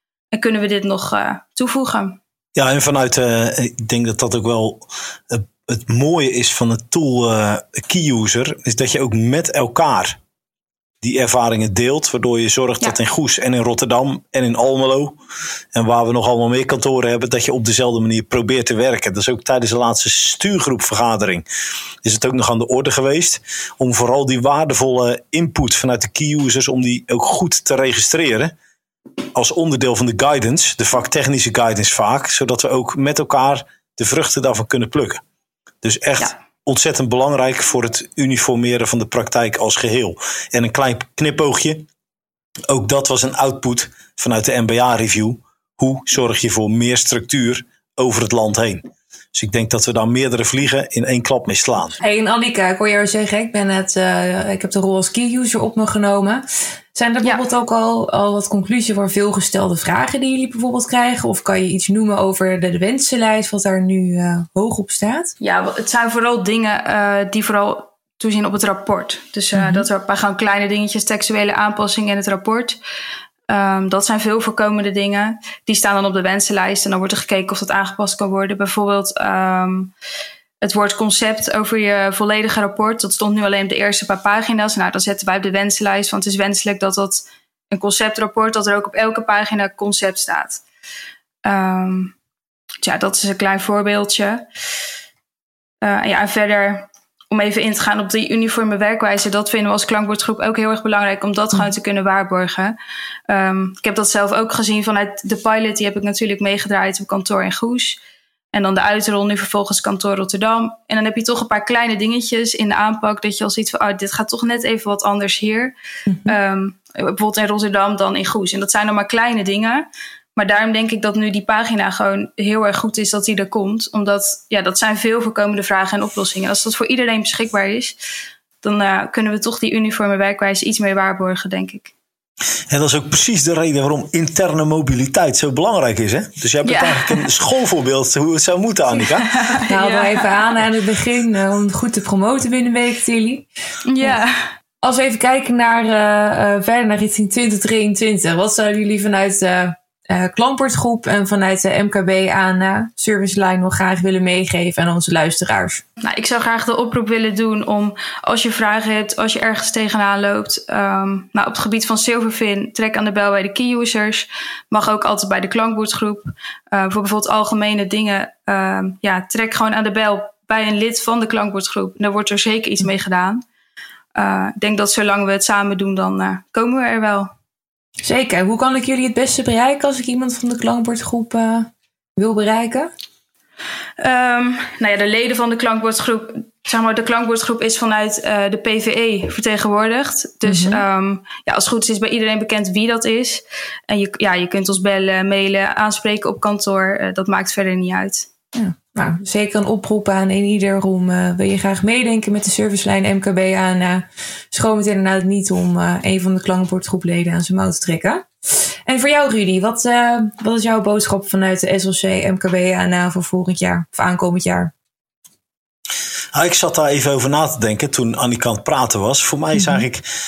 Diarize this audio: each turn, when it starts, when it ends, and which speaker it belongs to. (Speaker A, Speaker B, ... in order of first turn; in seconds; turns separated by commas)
Speaker A: 0.3-2.2, Speaker B: 2.6-10.2, Speaker B: 11.0-15.2, Speaker B: 15.7-21.5, Speaker B: 22.0-28.5, Speaker B: 29.4-35.2, Speaker B: 35.8-41.9, Speaker B: 42.7-52.0, Speaker C: 52.0-65.3, Speaker A: 65.4-72.8, Speaker C: 69.5-69.9, Speaker A: 73.5-79.9, Speaker A: 80.6-90.6, Speaker A: 91.4-92.1, Speaker A: 92.8-94.4, Speaker A: 95.8-102.8, Speaker A: 103.3-108.0, Speaker A: 108.5-115.7, Speaker C: 116.1-116.4, Speaker A: 116.3-128.0, Speaker A: 128.6-131.9, Speaker B: 132.7-139.3, Speaker A: 136.7-137.3, Speaker A: 139.0-140.3, Speaker C: 139.7-143.5, Speaker A: 143.9-144.4, Speaker C: 144.8-155.8, Speaker A: 156.0-173.4, Speaker A: 174.2-177.3, Speaker C: 178.0-182.9, Speaker A: 184.0-198.3, Speaker C: 190.4-190.8, Speaker C: 198.6-208.3, Speaker C: 208.9-214.7, Speaker B: 216.3-220.0, Speaker C: 219.5-219.9